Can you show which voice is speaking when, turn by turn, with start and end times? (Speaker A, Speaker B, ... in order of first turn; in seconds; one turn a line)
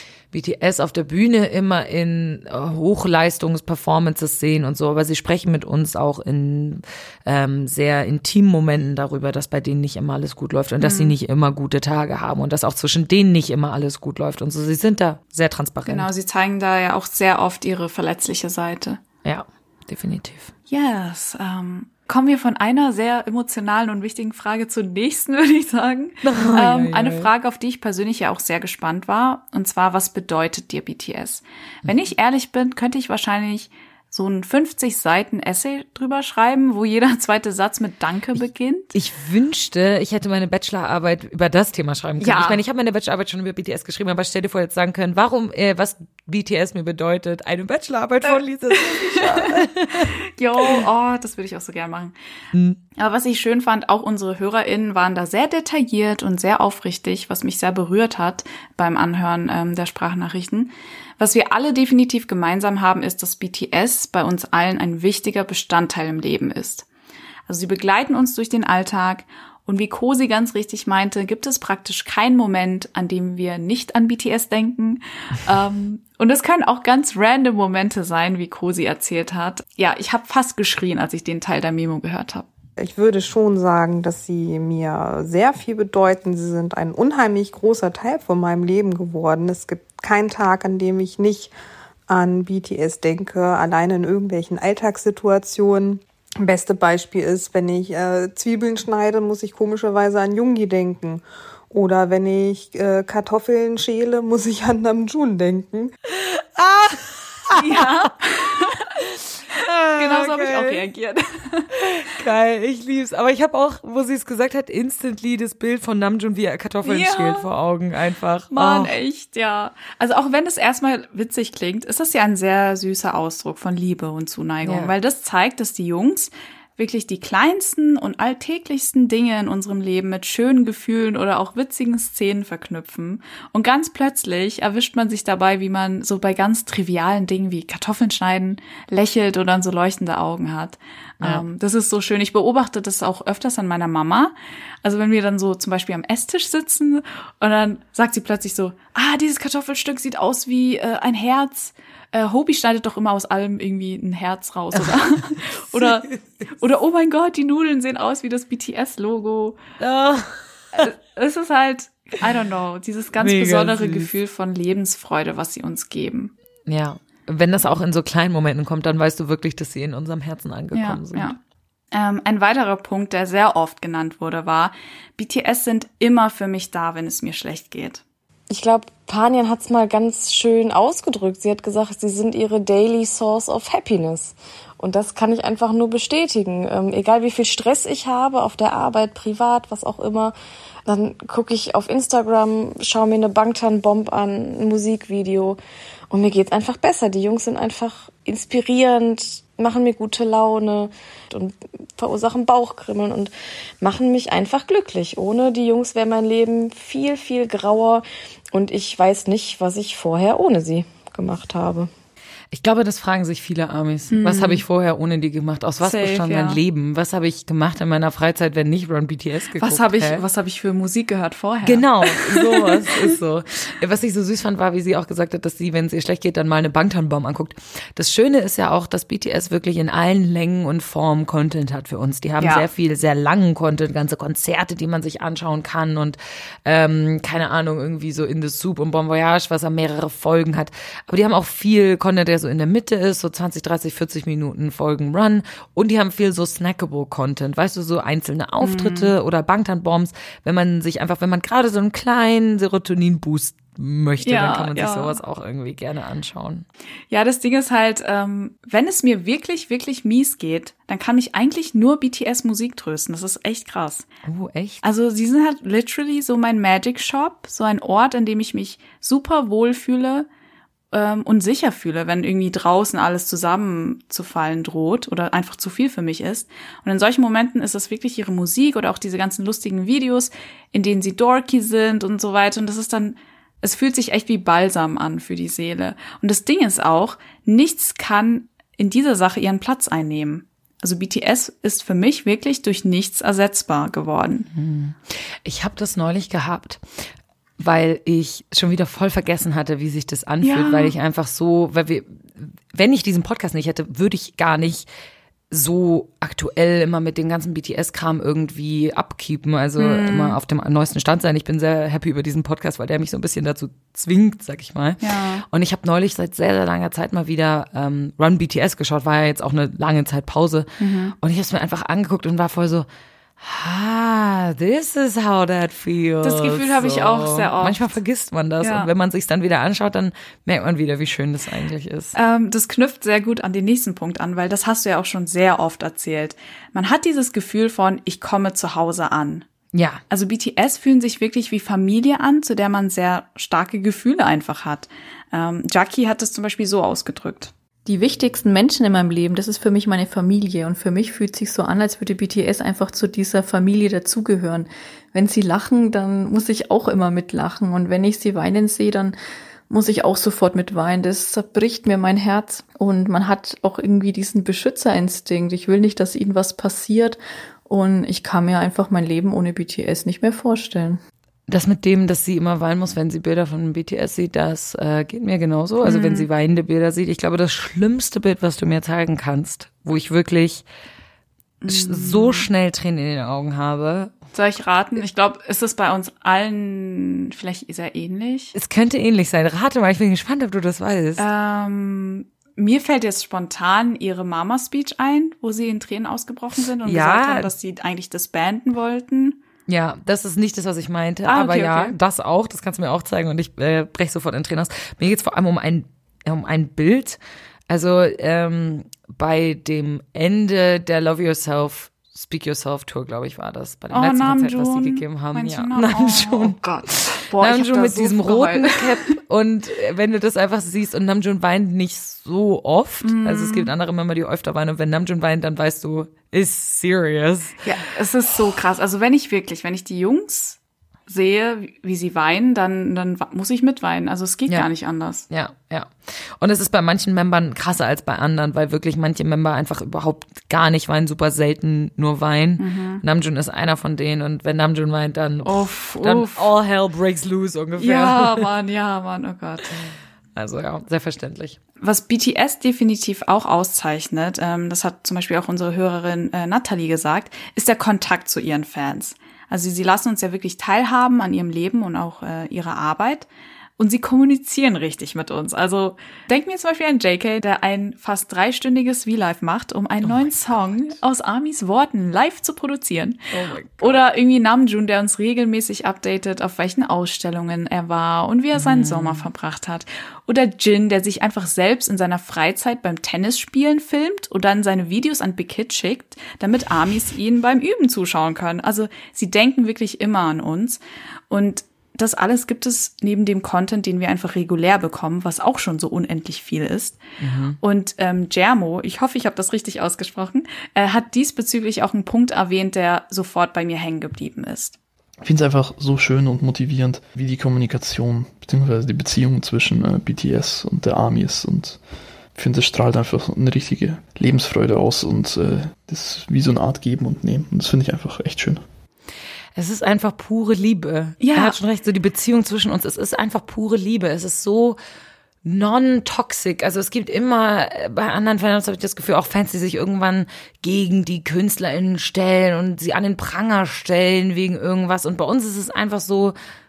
Speaker A: 0.3-16.1
Speaker B: 10.8-11.1
Speaker B: 15.8-19.0
Speaker A: 19.2-20.5
Speaker B: 20.7-38.9
Speaker A: 26.2-27.3
Speaker A: 38.9-50.8
Speaker B: 42.2-42.6
Speaker B: 48.9-49.5
Speaker B: 50.4-52.1
Speaker A: 52.5-52.8
Speaker B: 53.0-66.8
Speaker B: 67.5-82.5
Speaker C: 82.8-91.5
Speaker C: 92.1-106.0
Speaker A: 106.2-107.6
Speaker B: 107.5-108.7
Speaker A: 109.6-110.8
Speaker B: 110.0-111.7
Speaker A: 111.8-118.9
Speaker B: 116.8-117.5
Speaker B: 118.5-156.1
Speaker A: 124.6-124.9
Speaker A: 154.8-155.0
Speaker A: 155.8-156.5
Speaker B: 156.6-159.6
Speaker A: 159.8-160.4
Speaker B: 160.8-166.3
Speaker A: 163.2-164.1
Speaker A: 166.7-171.3
Speaker B: 170.7-171.4
Speaker B: 171.9-178.0
Speaker D: 178.5-190.3
Speaker D: 190.9-195.6
Speaker D: 196.1-211.9
Speaker A: 212.5-220.2
Speaker B: 214.1-214.6
Speaker B: 215.8-216.6
Speaker B: 219.6-223.1
Speaker A: 221.7-256.7
Speaker B: 232.4-232.7
Speaker B: 248.6-249.1
Speaker B: 254.2-255.2
Speaker B: 257.1-264.1
Speaker A: 264.2-264.8
Speaker B: 264.8-270.3
Speaker B: 270.9-294.5
Speaker A: 294.5-296.8
Speaker A: 297.6-304.9
Speaker B: 300.4-300.9
Speaker A: 305.5-322.9
Speaker B: 309.8-310.4
Speaker B: 315.0-315.4
Speaker B: 320.8-321.2
Speaker A: 323.4-332.1
Speaker B: 326.2-327.9
Speaker B: 328.6-328.9
Speaker B: 332.2-339.5
Speaker A: 339.7-340.0
Speaker B: 340.1-347.5
Speaker E: 347.9-359.2
Speaker E: 359.7-371.0
Speaker A: 371.5-380.7
Speaker B: 375.8-376.3
Speaker B: 381.6-382.4
Speaker A: 381.7-384.1
Speaker B: 384.3-388.5
Speaker A: 388.6-391.2
Speaker B: 391.2-399.4
Speaker A: 396.9-397.5
Speaker A: 399.7-416.6
Speaker B: 401.2-402.0
Speaker B: 413.9-419.1
Speaker A: 417.4-427.6
Speaker B: 423.0-423.7
Speaker B: 427.6-435.3
Speaker A: 435.3-448.5
Speaker B: 442.6-443.0
Speaker B: 445.4-446.5
Speaker B: 447.8-449.7
Speaker A: 449.8-451.6
Speaker B: 451.8-463.3
Speaker B: 463.8-473.2
Speaker A: 470.1-471.0
Speaker A: 473.3-474.0
Speaker B: 473.8-490.8
Speaker A: 478.6-479.2
Speaker B: 491.3-497.0
Speaker A: 497.2-497.6
Speaker B: 497.6-504.8
Speaker F: 505.2-511.8
Speaker F: 512.3-518.7
Speaker A: 519.6-524.8
Speaker B: 521.2-521.6
Speaker A: 525.5-536.4